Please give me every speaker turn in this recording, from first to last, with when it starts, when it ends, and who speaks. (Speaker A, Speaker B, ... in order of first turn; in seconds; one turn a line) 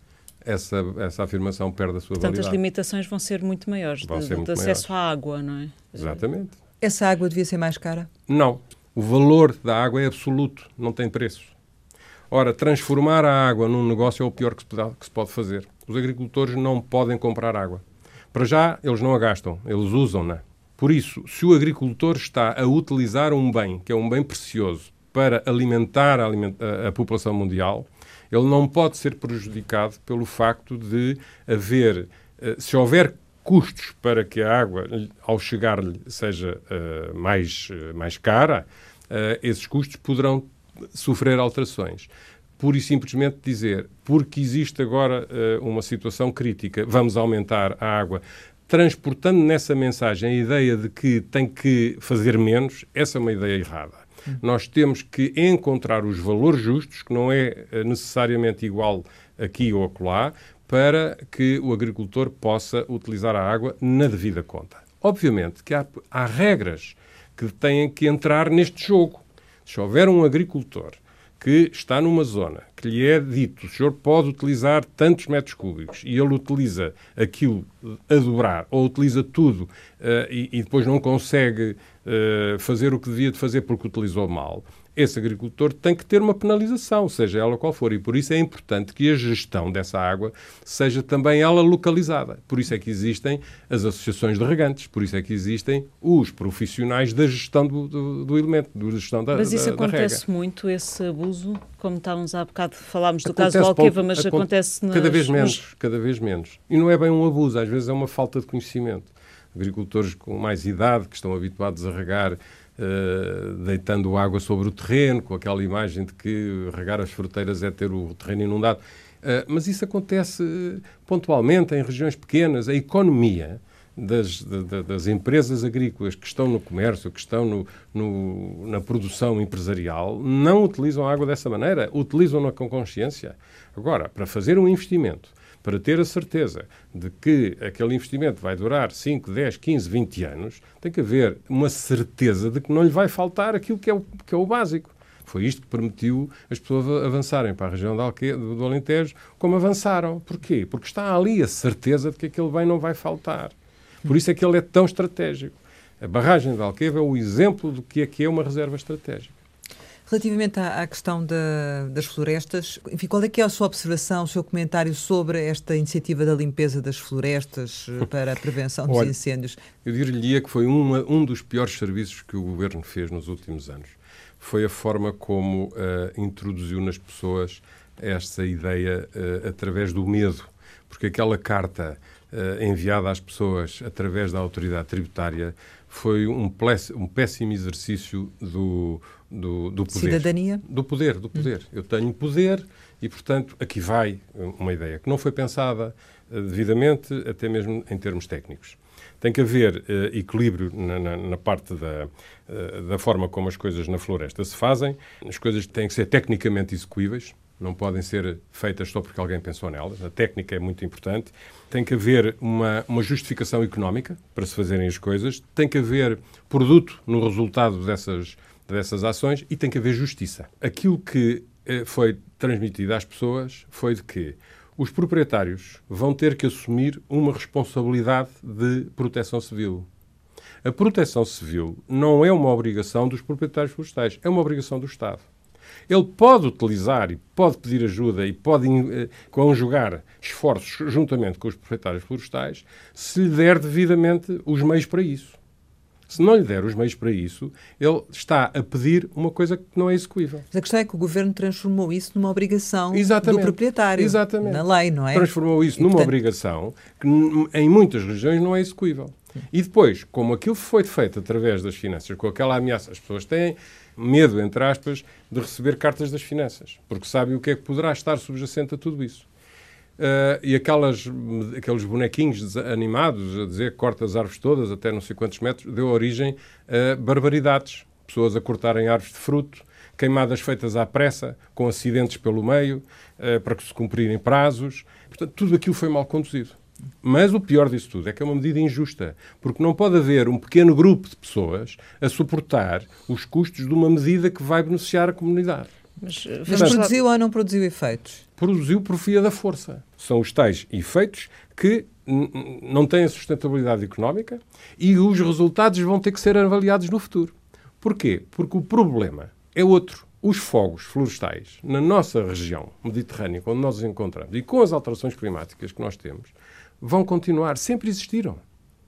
Speaker A: 0.4-2.6
Speaker B: 2.2-6.2
Speaker A: 4.0-4.9
Speaker A: 5.9-6.6
Speaker C: 6.8-8.1
Speaker A: 8.3-11.5
Speaker A: 12.3-100.2
Speaker B: 99.3-105.6
Speaker A: 103.2-153.5
Speaker A: 154.0-159.3
Speaker C: 160.1-169.6
Speaker A: 168.9-169.1
Speaker A: 169.8-229.9
Speaker C: 189.9-190.6
Speaker A: 230.6-235.2
Speaker A: 235.9-245.4
Speaker A: 246.1-250.4
Speaker C: 250.5-256.1
Speaker A: 252.9-269.2
Speaker A: 270.0-295.7
Speaker B: 296.0-296.9
Speaker C: 296.5-298.2
Speaker A: 296.5-296.8
Speaker A: 298.4-318.4